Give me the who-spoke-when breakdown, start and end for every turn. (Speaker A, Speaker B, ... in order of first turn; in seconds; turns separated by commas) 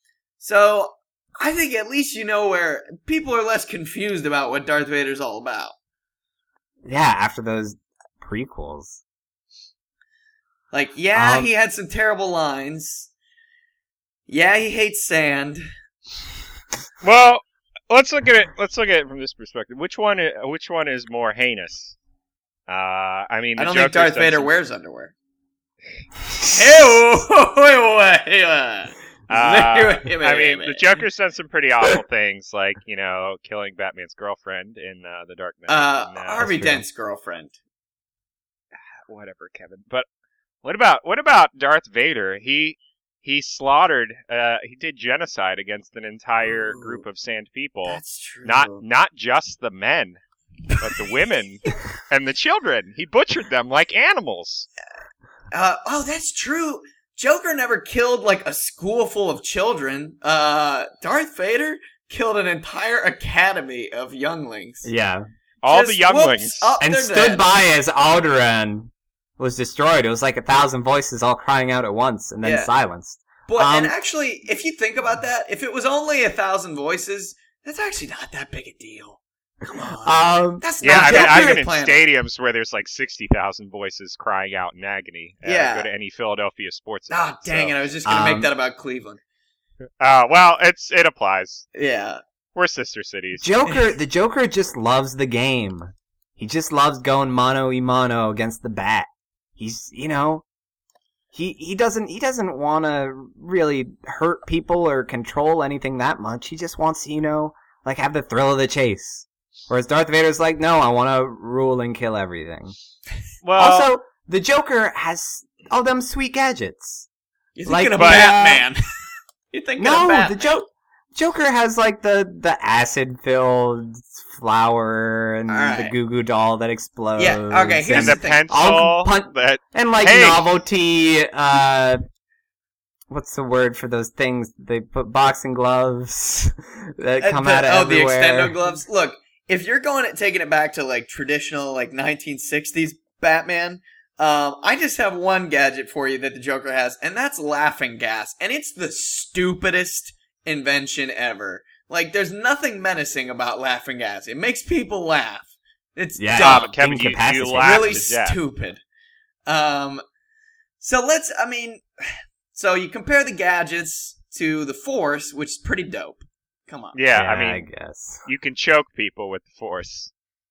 Speaker A: 0.4-5.7, Speaker B: 6.8-9.0, Speaker A: 10.7-13.1, Speaker B: 11.1-11.5, Speaker A: 14.3-15.6, Speaker C: 17.0-22.0, Speaker C: 22.7-24.5, Speaker A: 23.6-25.1, Speaker A: 26.5-30.8, Speaker C: 29.3-36.4, Speaker A: 35.7-37.6, Speaker B: 36.4-36.8, Speaker C: 39.0-40.0, Speaker C: 40.6-50.2, Speaker A: 46.6-47.0, Speaker A: 47.9-48.8, Speaker C: 50.8-54.7, Speaker A: 55.5-64.9, Speaker B: 64.8-65.3, Speaker C: 65.6-66.8, Speaker A: 65.7-67.5, Speaker B: 66.8-73.9, Speaker A: 72.4-72.7, Speaker A: 73.5-82.0, Speaker B: 80.0-81.6, Speaker C: 80.8-87.8, Speaker A: 85.4-85.9, Speaker A: 87.1-89.2, Speaker B: 88.0-88.5, Speaker C: 90.0-91.7, Speaker A: 91.8-92.2, Speaker C: 92.5-93.5, Speaker B: 93.4-100.4, Speaker B: 101.3-112.8, Speaker C: 113.4-113.9, Speaker B: 113.5-117.1, Speaker A: 117.5-118.8, Speaker B: 117.7-118.7, Speaker C: 118.0-118.3, Speaker A: 119.5-120.6, Speaker B: 119.8-132.0, Speaker A: 125.5-126.0, Speaker A: 127.2-128.6, Speaker C: 127.9-130.4, Speaker B: 133.1-138.5, Speaker A: 137.2-156.7, Speaker B: 156.2-158.0, Speaker C: 156.4-158.4, Speaker A: 157.6-158.8, Speaker A: 159.5-160.0, Speaker A: 160.8-167.0, Speaker C: 166.9-167.7, Speaker B: 167.1-168.2, Speaker C: 168.2-170.1